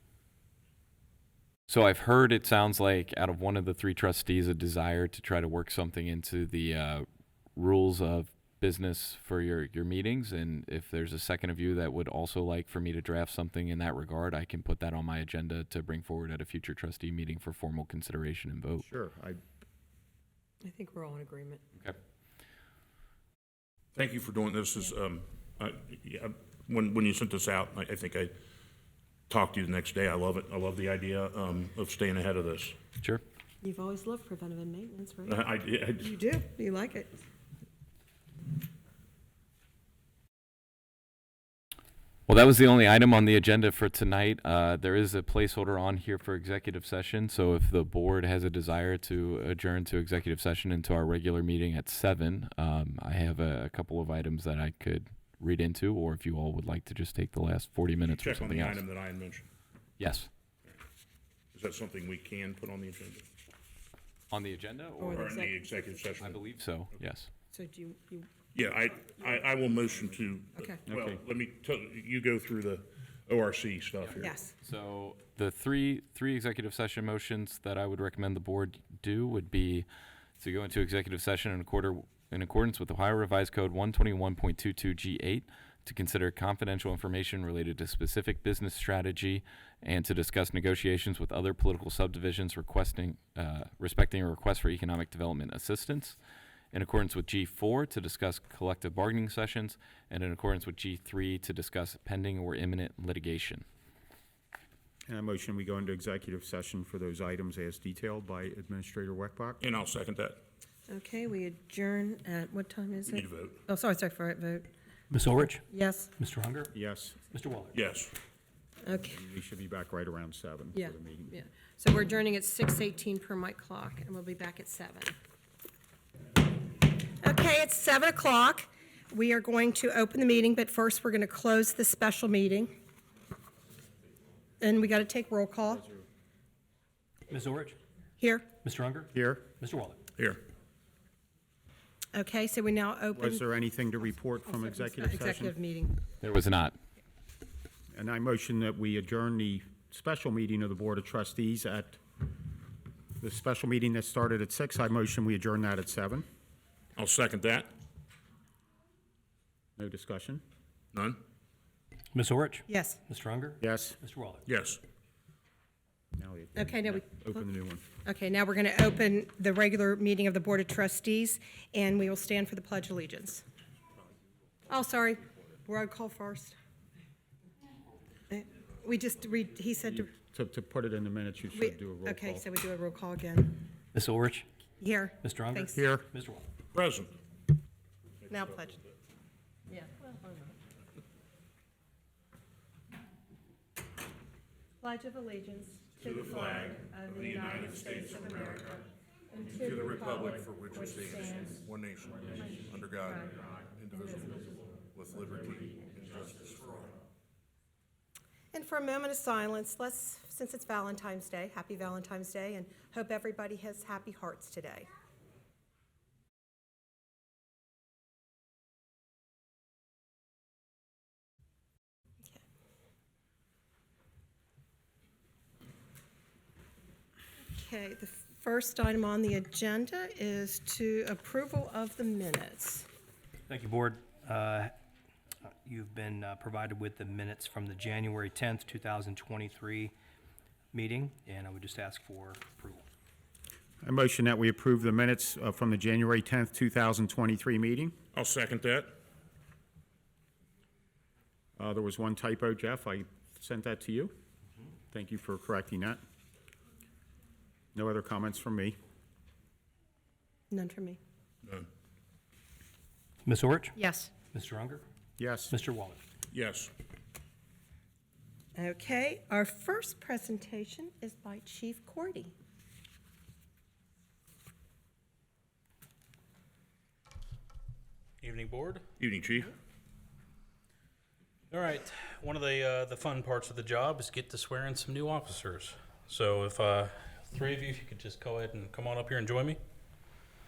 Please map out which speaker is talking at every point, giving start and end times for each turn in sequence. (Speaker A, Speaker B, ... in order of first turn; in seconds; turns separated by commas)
Speaker A: 1.7-18.9, Speaker B: 18.8-19.4, Speaker C: 20.6-21.6, Speaker D: 23.9-28.3, Speaker D: 29.3-32.8, Speaker C: 33.6-35.4, Speaker D: 35.2-36.1, Speaker C: 36.0-37.1, Speaker A: 42.3-58.8, Speaker D: 58.0-59.4, Speaker A: 60.0-60.3, Speaker D: 61.5-63.2, Speaker A: 64.3-65.2, Speaker C: 65.0-65.6, Speaker D: 65.1-66.4, Speaker A: 66.2-67.3, Speaker C: 67.5-68.3, Speaker D: 68.5-74.3, Speaker C: 70.6-70.8, Speaker B: 70.9-71.2, Speaker A: 74.0-79.9, Speaker C: 74.2-74.5, Speaker A: 80.4-96.2, Speaker A: 96.7-103.6, Speaker B: 105.1-109.6, Speaker D: 109.6-110.4, Speaker C: 110.9-114.7, Speaker D: 113.1-113.6, Speaker E: 115.1-115.6, Speaker C: 115.7-116.1, Speaker E: 116.2-116.7, Speaker B: 116.7-117.2, Speaker E: 117.3-117.8, Speaker D: 117.7-118.1, Speaker C: 118.8-119.2, Speaker B: 119.0-121.3, Speaker C: 120.7-125.2, Speaker C: 127.2-132.7, Speaker C: 134.6-135.9, Speaker E: 137.3-137.8, Speaker C: 138.2-138.5, Speaker E: 138.6-140.0, Speaker B: 139.1-139.5, Speaker D: 140.2-140.4, Speaker C: 142.1-143.4, Speaker B: 143.1-145.5, Speaker C: 144.4-146.0, Speaker A: 146.2-146.8, Speaker B: 147.9-152.0, Speaker B: 153.2-156.2, Speaker D: 156.9-157.7, Speaker B: 159.8-160.4, Speaker D: 160.9-161.2, Speaker E: 162.1-164.4, Speaker C: 162.7-163.0, Speaker B: 163.6-164.0, Speaker D: 164.4-164.8, Speaker B: 166.2-167.8, Speaker C: 166.5-167.4, Speaker C: 168.0-173.4, Speaker C: 174.7-176.6, Speaker C: 178.3-180.1, Speaker B: 179.9-182.4, Speaker C: 181.5-183.6, Speaker E: 183.9-184.5, Speaker C: 184.8-185.9, Speaker E: 185.2-186.4, Speaker B: 185.7-186.1, Speaker D: 186.7-187.1, Speaker C: 188.3-188.8, Speaker C: 189.7-190.5, Speaker C: 194.8-201.6, Speaker D: 196.0-198.7, Speaker D: 199.5-206.9, Speaker C: 202.4-203.3, Speaker C: 204.0-204.3, Speaker C: 208.5-214.9, Speaker C: 227.4-232.9, Speaker E: 233.5-234.7, Speaker E: 235.4-239.9, Speaker E: 240.7-242.8, Speaker B: 243.8-247.9, Speaker D: 248.1-248.9, Speaker B: 251.6-254.1, Speaker B: 254.9-256.0, Speaker B: 257.7-258.8, Speaker C: 260.5-261.0, Speaker E: 263.2-264.8, Speaker C: 263.8-264.1, Speaker B: 265.2-265.6, Speaker E: 265.5-266.0, Speaker D: 266.3-266.7, Speaker C: 268.5-272.3, Speaker F: 278.2-278.9, Speaker D: 279.0-279.5, Speaker F: 281.5-289.6